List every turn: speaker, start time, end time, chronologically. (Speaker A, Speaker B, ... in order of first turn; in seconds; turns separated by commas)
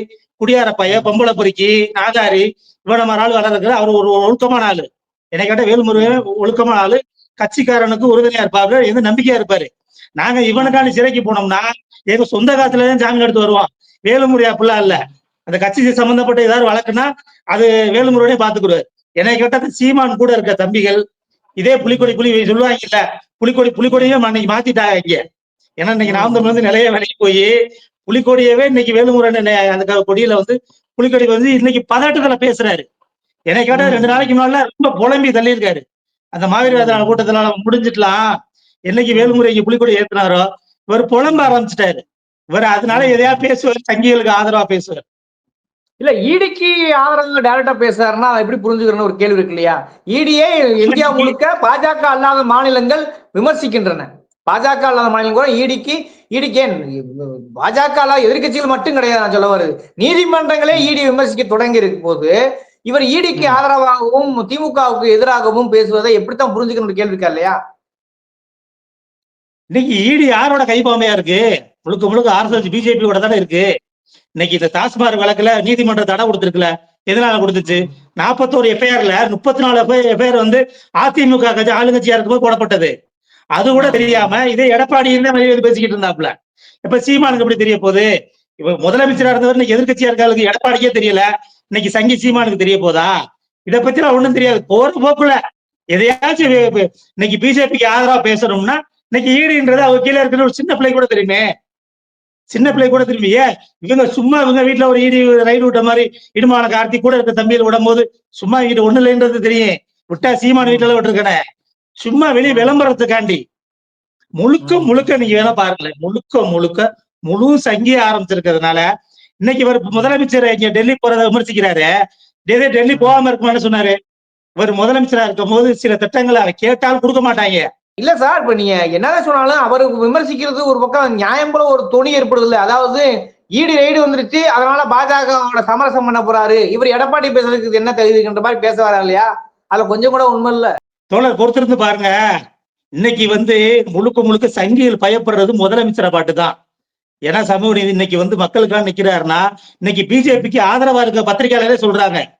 Speaker A: 0.4-21.0, Speaker B: 6.0-6.2, Speaker B: 10.6-10.9, Speaker A: 21.6-25.2, Speaker B: 21.8-22.1, Speaker A: 25.8-27.5, Speaker B: 26.1-26.6, Speaker A: 28.1-32.8, Speaker A: 33.5-35.8, Speaker B: 33.7-34.3, Speaker A: 36.4-38.2, Speaker B: 36.6-37.2, Speaker A: 38.9-42.0, Speaker B: 39.1-39.4, Speaker B: 41.3-41.6, Speaker A: 42.5-45.0, Speaker B: 42.9-43.4, Speaker B: 46.0-62.3, Speaker A: 50.8-51.4, Speaker B: 62.9-67.6, Speaker A: 69.7-73.7, Speaker A: 74.4-82.9, Speaker B: 77.7-77.9, Speaker A: 83.6-86.3, Speaker B: 83.7-84.3, Speaker A: 86.8-88.1, Speaker A: 88.6-93.1, Speaker B: 89.1-89.4, Speaker A: 93.7-95.4, Speaker A: 95.9-101.4, Speaker A: 102.5-111.4, Speaker B: 102.6-103.0, Speaker B: 110.6-110.9, Speaker A: 112.0-113.4, Speaker B: 112.5-112.8, Speaker A: 114.4-118.8, Speaker B: 114.6-115.4, Speaker A: 119.4-121.9, Speaker A: 122.5-123.9, Speaker A: 124.6-127.6, Speaker B: 128.0-140.7, Speaker A: 141.1-142.2, Speaker A: 143.0-146.5, Speaker A: 147.3-152.2